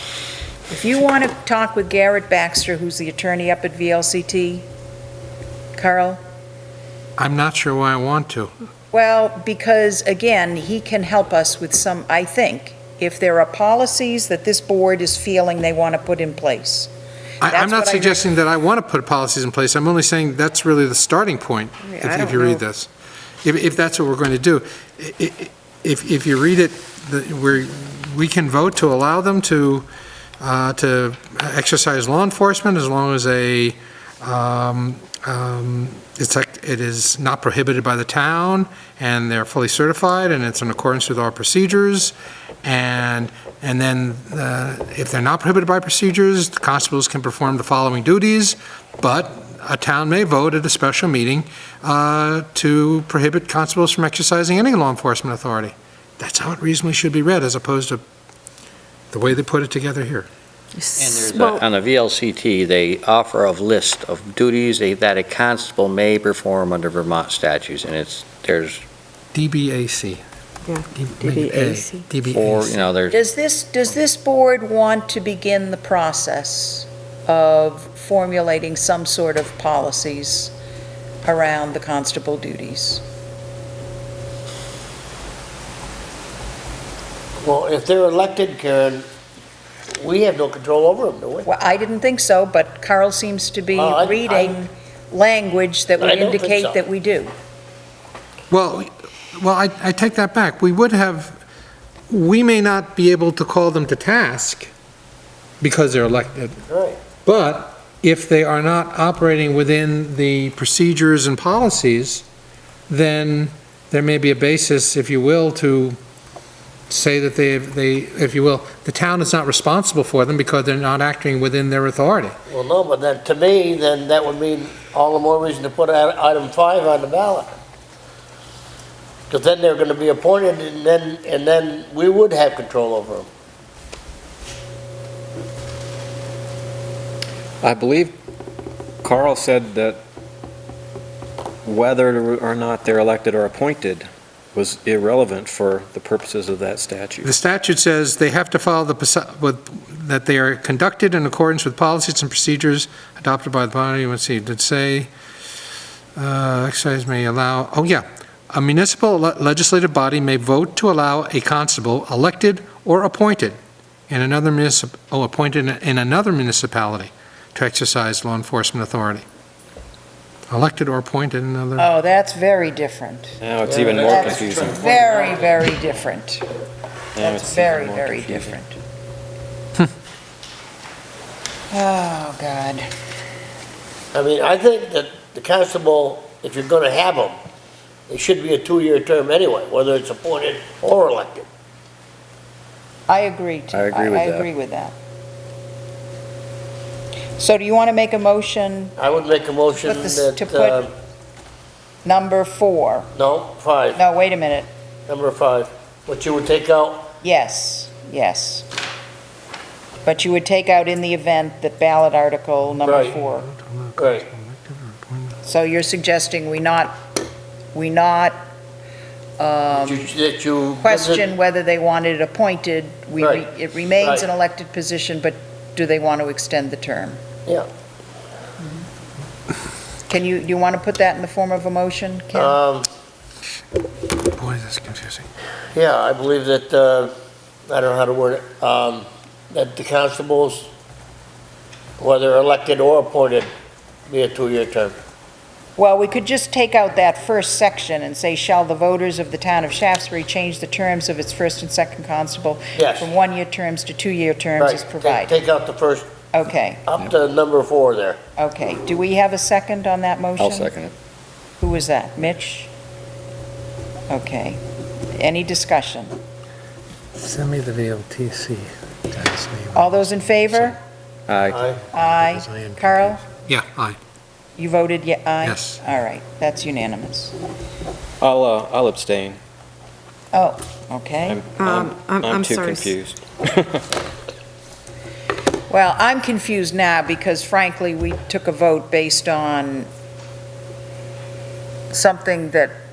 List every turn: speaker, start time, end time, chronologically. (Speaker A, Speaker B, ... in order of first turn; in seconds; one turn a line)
Speaker A: 0.7-4.7
Speaker A: 5.8-6.2
Speaker B: 7.2-8.5
Speaker A: 8.9-16.9
Speaker B: 17.4-22.9
Speaker A: 17.4-18.2
Speaker A: 21.9-22.6
Speaker B: 23.4-29.9
Speaker B: 30.4-58.0
Speaker B: 59.1-60.3
Speaker C: 60.8-61.6
Speaker D: 61.0-68.8
Speaker B: 69.3-70.2
Speaker C: 70.7-72.0
Speaker B: 70.9-72.8
Speaker D: 72.3-73.2
Speaker A: 73.1-80.5
Speaker A: 81.2-83.0
Speaker E: 87.4-89.1
Speaker E: 90.0-91.5
Speaker A: 91.5-97.3
Speaker E: 93.7-94.6
Speaker E: 96.0-96.8
Speaker B: 98.5-101.4
Speaker B: 102.1-104.7
Speaker B: 105.6-106.6
Speaker E: 106.7-107.0
Speaker B: 107.2-112.2
Speaker B: 112.9-116.0
Speaker B: 116.9-122.3
Speaker E: 122.5-127.5
Speaker E: 129.3-133.3
Speaker F: 137.6-138.1
Speaker F: 139.0-140.0
Speaker F: 141.6-147.3
Speaker B: 147.2-155.1
Speaker B: 156.2-163.6
Speaker B: 164.1-169.2
Speaker B: 170.5-171.9
Speaker A: 171.8-173.4
Speaker F: 173.4-175.1
Speaker E: 173.6-175.5
Speaker A: 173.9-176.4
Speaker F: 177.2-178.5
Speaker A: 177.2-178.8
Speaker A: 181.7-182.9
Speaker E: 184.1-187.4
Speaker E: 188.1-191.4
Speaker A: 193.1-194.9
Speaker D: 193.7-194.4
Speaker A: 197.4-198.9
Speaker E: 199.0-200.9
Speaker A: 199.8-200.8
Speaker A: 202.0-203.1
Speaker E: 203.1-204.0
Speaker A: 203.9-204.7
Speaker E: 205.1-207.1
Speaker A: 207.2-208.7
Speaker A: 210.0-213.5
Speaker B: 212.8-215.4
Speaker E: 212.8-213.2
Speaker E: 214.0-214.3
Speaker A: 215.4-217.0
Speaker A: 217.7-218.4
Speaker A: 219.4-220.1
Speaker E: 219.7-221.3
Speaker A: 220.8-227.2
Speaker E: 223.2-223.4
Speaker E: 224.0-224.2
Speaker A: 230.1-232.6
Speaker E: 232.3-232.9
Speaker B: 234.3-235.2
Speaker E: 235.7-237.1
Speaker E: 237.7-240.7
Speaker E: 242.0-243.5
Speaker E: 244.1-244.9
Speaker A: 245.8-255.3
Speaker E: 252.7-253.1
Speaker E: 254.6-256.1
Speaker A: 256.3-256.8
Speaker E: 256.9-258.2
Speaker A: 258.4-260.7
Speaker D: 260.4-260.9
Speaker A: 261.6-262.7
Speaker A: 264.1-264.6
Speaker A: 265.1-266.1
Speaker B: 267.1-270.8
Speaker A: 269.7-270.8
Speaker D: 271.3-271.6
Speaker E: 271.5-271.8
Speaker A: 271.9-273.2
Speaker B: 272.0-274.0
Speaker A: 274.6-277.3
Speaker B: 275.4-275.8
Speaker F: 278.2-279.4
Speaker A: 280.3-281.4
Speaker F: 281.3-283.9
Speaker C: 281.6-282.9
Speaker A: 285.7-289.9
Speaker A: 291.9-292.7